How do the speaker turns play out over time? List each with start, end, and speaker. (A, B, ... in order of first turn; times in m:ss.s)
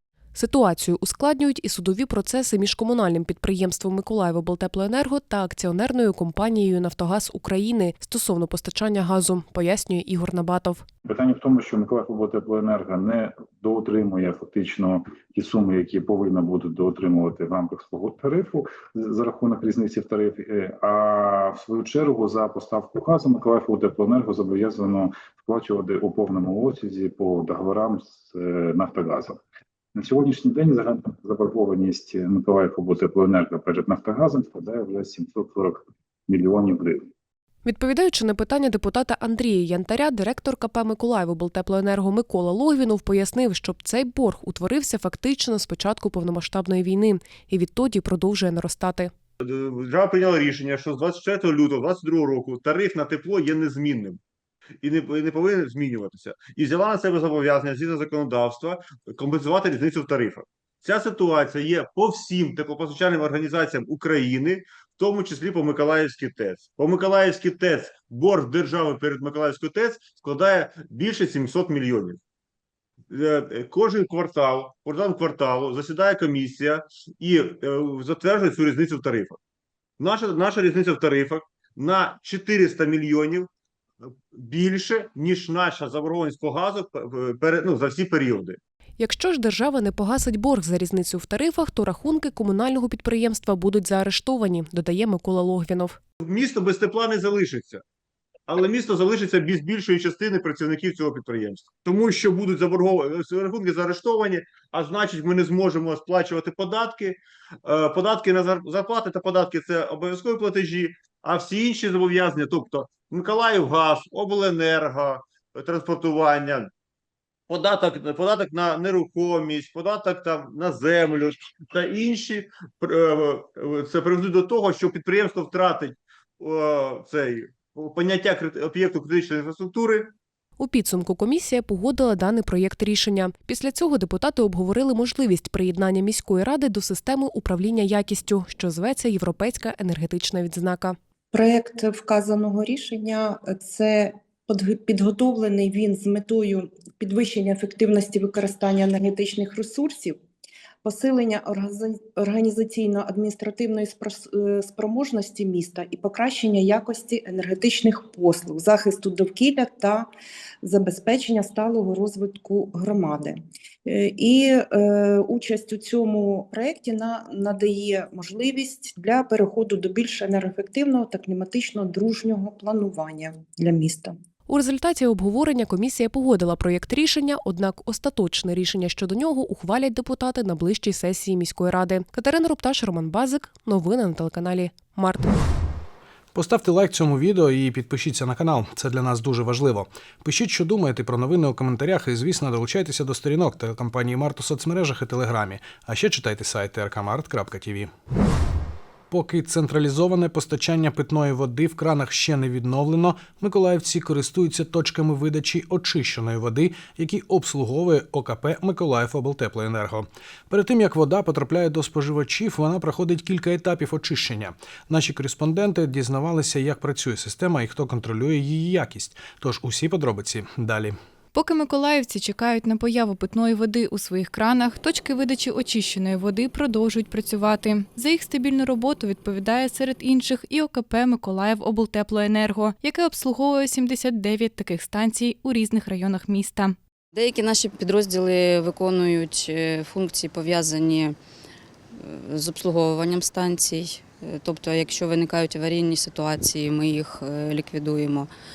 0:00.3-0:10.8 A
0:11.0-0:29.4 B
0:29.9-0:37.0 B
0:37.6-0:49.1 A
0:49.4-0:54.2 C
0:54.8-1:12.2 C
1:13.1-1:19.4 C
1:20.0-1:23.5 C
1:24.0-1:28.6 C
1:29.0-1:36.0 A
1:36.2-1:37.8 C
1:38.5-1:56.7 C
1:57.5-2:10.1 C
2:10.6-2:21.0 A
2:21.3-2:30.2 D
2:30.8-2:40.1 D
2:40.6-2:54.1 D
2:54.5-3:05.3 A
3:06.3-3:17.9 E
3:19.1-3:41.0 E
3:41.3-3:56.8 F
3:57.1-4:01.2 G
4:02.0-4:08.3 G